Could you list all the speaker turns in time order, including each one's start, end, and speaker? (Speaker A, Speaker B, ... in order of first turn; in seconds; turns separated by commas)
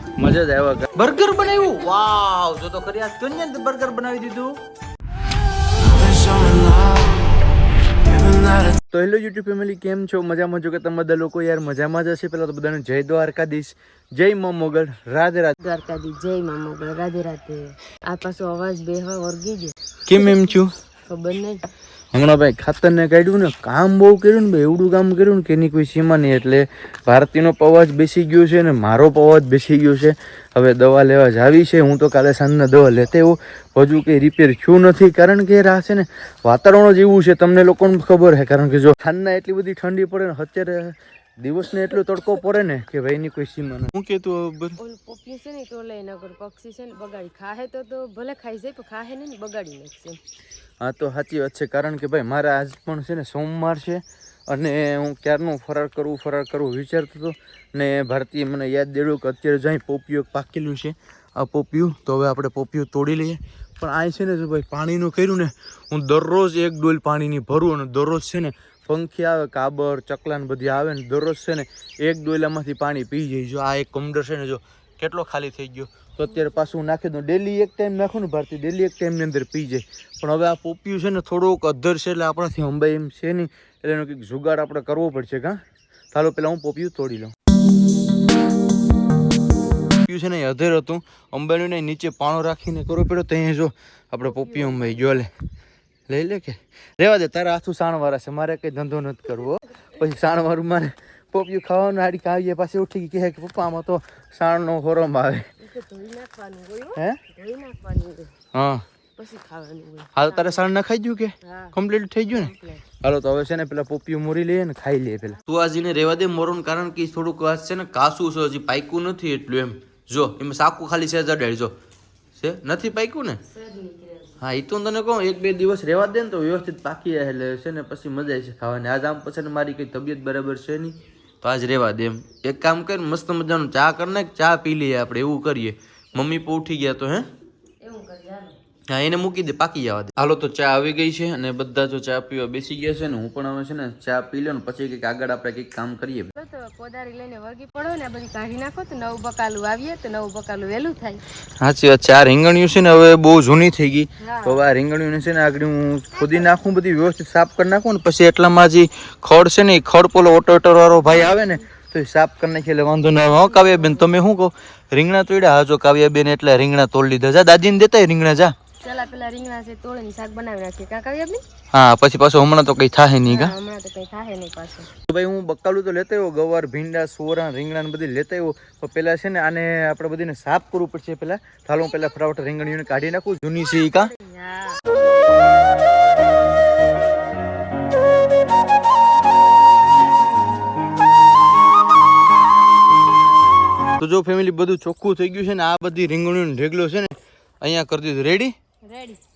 Speaker A: 0.2-4.6, Speaker A: 6.0-6.9, Speaker A: 8.3-15.6, Speaker B: 15.6-20.4, Speaker A: 20.1-20.7, Speaker B: 21.1-21.6, Speaker A: 22.1-44.8, Speaker B: 44.8-50.2, Speaker A: 50.8-85.6, Speaker A: 86.1-87.3, Speaker A: 90.0-95.3, Speaker B: 94.3-95.0, Speaker A: 96.1-105.5, Speaker B: 105.6-108.3, Speaker A: 108.5-108.8, Speaker B: 109.2-110.6, Speaker A: 110.2-112.5, Speaker B: 111.4-111.8, Speaker B: 112.3-112.8, Speaker A: 113.0-121.7, Speaker A: 122.4-123.4, Speaker B: 123.5-124.4, Speaker A: 124.4-137.3, Speaker B: 137.8-138.6, Speaker A: 138.9-146.3, Speaker B: 146.3-151.2, Speaker A: 151.6-168.5, Speaker B: 154.2-154.7, Speaker B: 163.4-164.1, Speaker B: 168.8-171.4, Speaker A: 171.7-173.5, Speaker B: 173.3-174.9, Speaker A: 175.1-184.1, Speaker B: 183.7-184.8, Speaker A: 194.0-198.6, Speaker B: 198.8-199.2